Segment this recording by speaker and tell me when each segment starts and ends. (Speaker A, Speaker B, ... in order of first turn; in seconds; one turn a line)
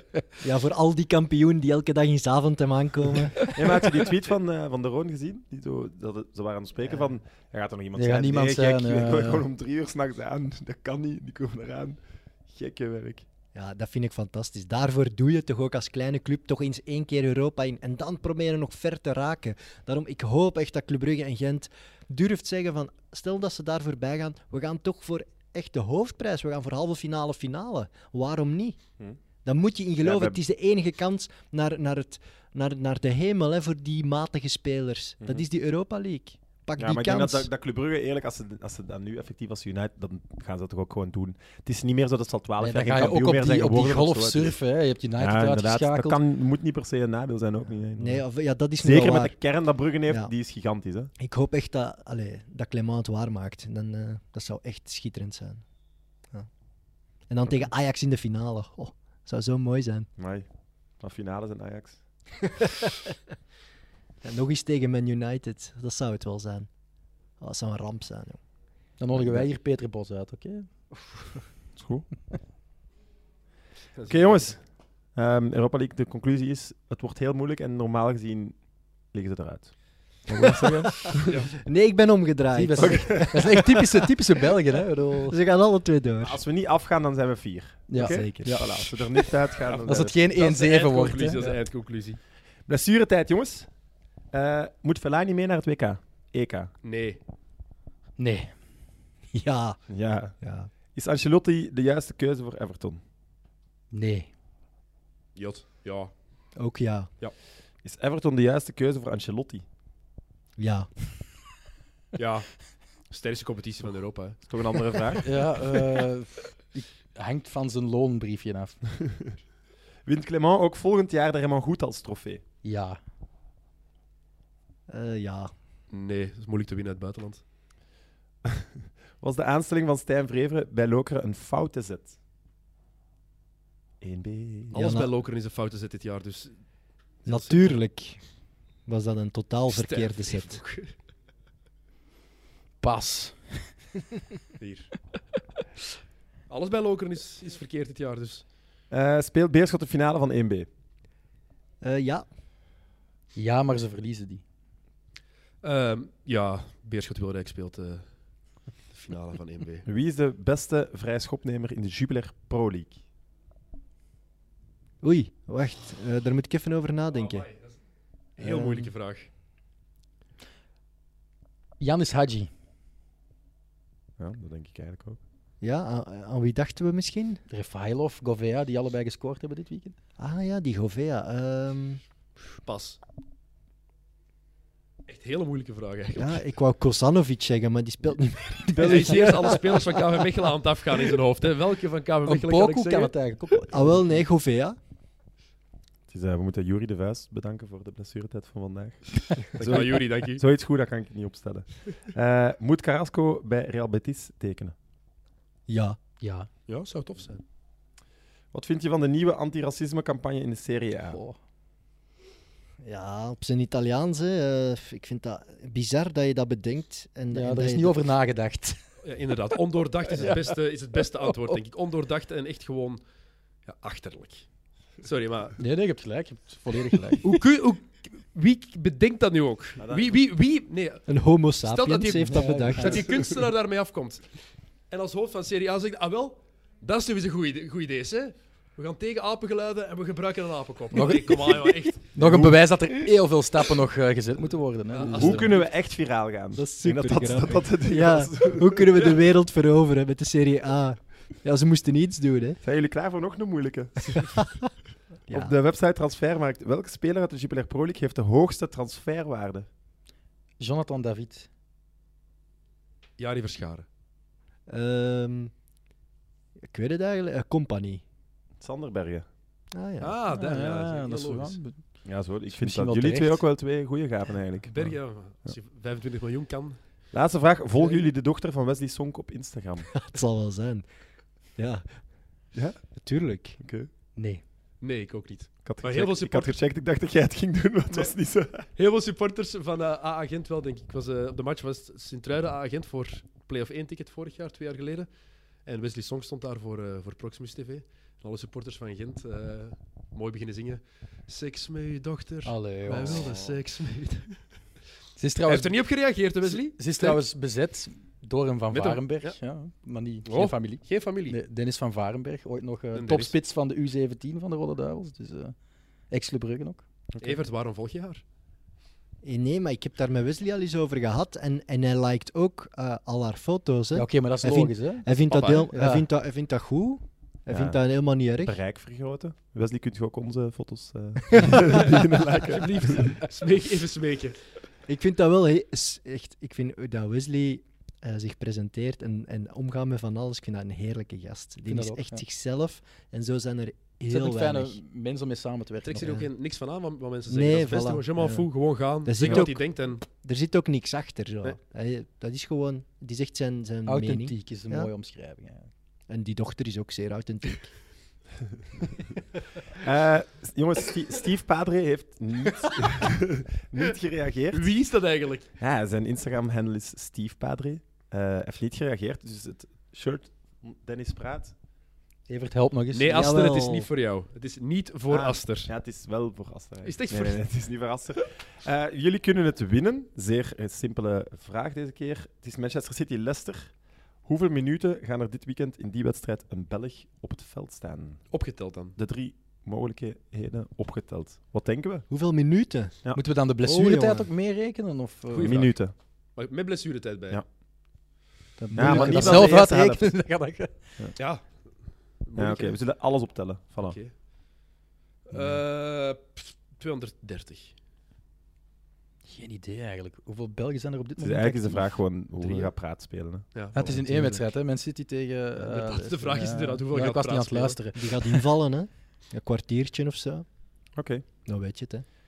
Speaker A: 0.4-3.5
Speaker B: 3.4-13.3
Speaker C: 8.0-9.4
Speaker A: 13.5-28.8
Speaker A: 29.4-37.5
Speaker B: 30.0-30.4
Speaker B: 36.8-44.5
Speaker C: 42.6-46.2
Speaker B: 45.2-48.2
Speaker A: 48.0-49.4
Speaker B: 48.8-51.1
Speaker A: 50.1-50.3
Speaker A: 51.2-55.6
Speaker A: 57.3-60.1
Speaker B: 60.2-60.5
Speaker B: 61.0-62.0
Speaker A: 62.5-63.1
Speaker A: 64.2-66.7
Speaker A: 67.4-68.4
Speaker C: 69.0-70.7
Speaker B: 69.1-69.5
Speaker B: 71.8-72.1
Speaker D: 74.0-74.5
Speaker B: 74.1-74.6
Speaker B: 75.1-78.6
Speaker B: 79.1-81.3
Speaker C: 80.3-80.9
Speaker A: 81.1-83.9
Speaker D: 81.3-81.5
Speaker C: 82.5-85.4
Speaker B: 82.8-83.5
Speaker A: 85.3-86.4
Speaker B: 86.2-90.2
Speaker C: 87.9-89.0
Speaker A: 88.0-88.6
Speaker D: 89.7-92.2
Speaker C: 89.8-91.6
Speaker B: 92.7-93.7
Speaker B: 94.3-96.7
Speaker D: 96.8-97.2
Speaker C: 98.2-98.5
Speaker A: 99.3-99.8
Speaker B: 99.9-100.4
Speaker A: 100.4-100.7
Speaker B: 100.9-103.0
Speaker C: 103.9-104.3
Speaker D: 105.4-106.1
Speaker A: 106.6-107.1
Speaker B: 107.8-109.7
Speaker A: 110.6-110.9
Speaker D: 112.2-114.4
Speaker B: 114.5-115.3
Speaker C: 115.2-118.8
Speaker B: 120.1-122.4
Speaker C: 122.6-123.0
Speaker A: 124.9-125.5
Speaker D: 125.9-127.4
Speaker B: 129.2-132.2
Speaker B: 134.0-135.0
Speaker D: 134.7-136.6
Speaker A: 134.7-135.1
Speaker D: 137.2-137.8
Speaker A: 137.3-138.2
Speaker A: 138.9-140.6
Speaker D: 139.7-140.9
Speaker C: 142.8-143.7
Speaker D: 144.6-144.9
Speaker D: 146.5-148.4
Speaker B: 148.9-150.7
Speaker A: 151.8-152.3
Speaker C: 153.3-154.4
Speaker D: 155.6-158.1
Speaker D: 158.9-159.9
Speaker B: 159.8-163.0
Speaker A: 165.0-167.5
Speaker D: 167.2-167.8
Speaker D: 168.4-169.3
Speaker A: 168.4-168.9
Speaker C: 171.8-172.5
Speaker B: 174.2-175.2
Speaker A: 175.6-177.4
Speaker C: 177.5-180.0
Speaker A: 180.2-182.0
Speaker D: 182.6-183.0
Speaker D: 185.1-186.5
Speaker A: 186.2-190.3
Speaker D: 188.8-193.2
Speaker C: 192.3-194.1
Speaker A: 193.7-194.8
Speaker B: 196.1-204.8
Speaker D: 199.5-200.4
Speaker A: 205.7-206.0
Speaker C: 206.2-206.5
Speaker D: 206.7-207.4
Speaker B: 208.5-211.2
Speaker C: 211.1-211.4
Speaker A: 212.8-218.0
Speaker C: 217.3-218.8
Speaker D: 219.0-223.0
Speaker C: 220.2-220.6
Speaker C: 221.1-221.6
Speaker D: 223.7-224.5
Speaker D: 225.0-225.6
Speaker C: 225.6-227.3
Speaker D: 227.2-231.1
Speaker B: 229.8-230.1
Speaker A: 231.1-233.1
Speaker D: 231.6-234.3
Speaker C: 232.2-233.0
Speaker D: 234.9-242.1
Speaker C: 240.9-241.6
Speaker C: 242.2-245.5
Speaker B: 242.2-242.7
Speaker D: 244.9-245.7
Speaker B: 245.1-249.0
Speaker A: 246.6-252.6
Speaker B: 252.6-254.4
Speaker A: 254.2-254.7
Speaker A: 255.3-255.6
Speaker B: 255.3-259.7
Speaker C: 260.6-261.5
Speaker D: 263.2-263.9
Speaker A: 264.7-265.5
Speaker A: 266.7-268.0
Speaker B: 268.6-269.3
Speaker A: 269.7-270.2
Speaker D: 270.0-271.6
Speaker C: 270.3-271.9
Speaker B: 272.1-275.6
Speaker C: 272.5-273.4
Speaker D: 274.7-276.8
Speaker B: 277.1-279.9
Speaker A: 279.9-280.9
Speaker A: 281.6-281.9
Speaker B: 282.5-282.8
Speaker A: 283.0-283.6
Speaker B: 283.6-283.9
Speaker C: 284.2-284.4
Speaker D: 284.8-286.6
Speaker B: 285.6-288.7
Speaker D: 288.8-295.1
Speaker D: 295.6-304.4
Speaker C: 302.4-303.3
Speaker B: 303.1-303.6
Speaker C: 305.2-305.8
Speaker D: 305.5-307.2
Speaker C: 306.4-315.6
Speaker D: 308.7-309.4
Speaker D: 310.3-311.4
Speaker D: 312.9-313.3
Speaker C: 316.1-316.9
Speaker B: 317.1-317.4
Speaker D: 317.2-318.2
Speaker A: 319.2-328.6
Speaker C: 323.9-326.1
Speaker D: 325.3-325.7
Speaker B: 327.5-327.8
Speaker B: 328.4-333.2
Speaker A: 331.3-331.6
Speaker D: 331.7-334.4
Speaker A: 334.9-344.8
Speaker C: 341.7-342.2
Speaker C: 344.1-346.2
Speaker D: 345.8-350.0
Speaker A: 346.0-346.3
Speaker A: 347.3-348.5
Speaker A: 349.1-354.9
Speaker C: 353.9-355.7
Speaker A: 356.1-357.8
Speaker B: 359.8-364.7
Speaker D: 364.5-365.5
Speaker B: 365.6-371.5
Speaker C: 372.3-373.3
Speaker D: 372.9-375.7
Speaker A: 373.1-373.9
Speaker B: 375.1-383.7
Speaker D: 376.9-377.4
Speaker B: 384.2-388.3
Speaker D: 388.3-389.0
Speaker B: 389.0-392.1
Speaker A: 392.1-393.0
Speaker C: 393.1-395.7
Speaker A: 393.6-394.3
Speaker D: 395.3-395.7
Speaker B: 395.4-395.9
Speaker D: 396.4-397.4
Speaker A: 398.6-399.5
Speaker C: 398.7-400.8
Speaker B: 398.8-400.1
Speaker D: 401.2-401.5
Speaker D: 402.2-402.8
Speaker B: 402.4-404.0
Speaker D: 403.8-404.1
Speaker D: 405.3-407.8
Speaker C: 409.3-412.7
Speaker B: 411.2-413.5
Speaker C: 413.7-418.5
Speaker A: 413.8-414.5
Speaker D: 415.6-417.8
Speaker A: 417.9-420.4
Speaker B: 421.0-421.2
Speaker A: 421.5-422.1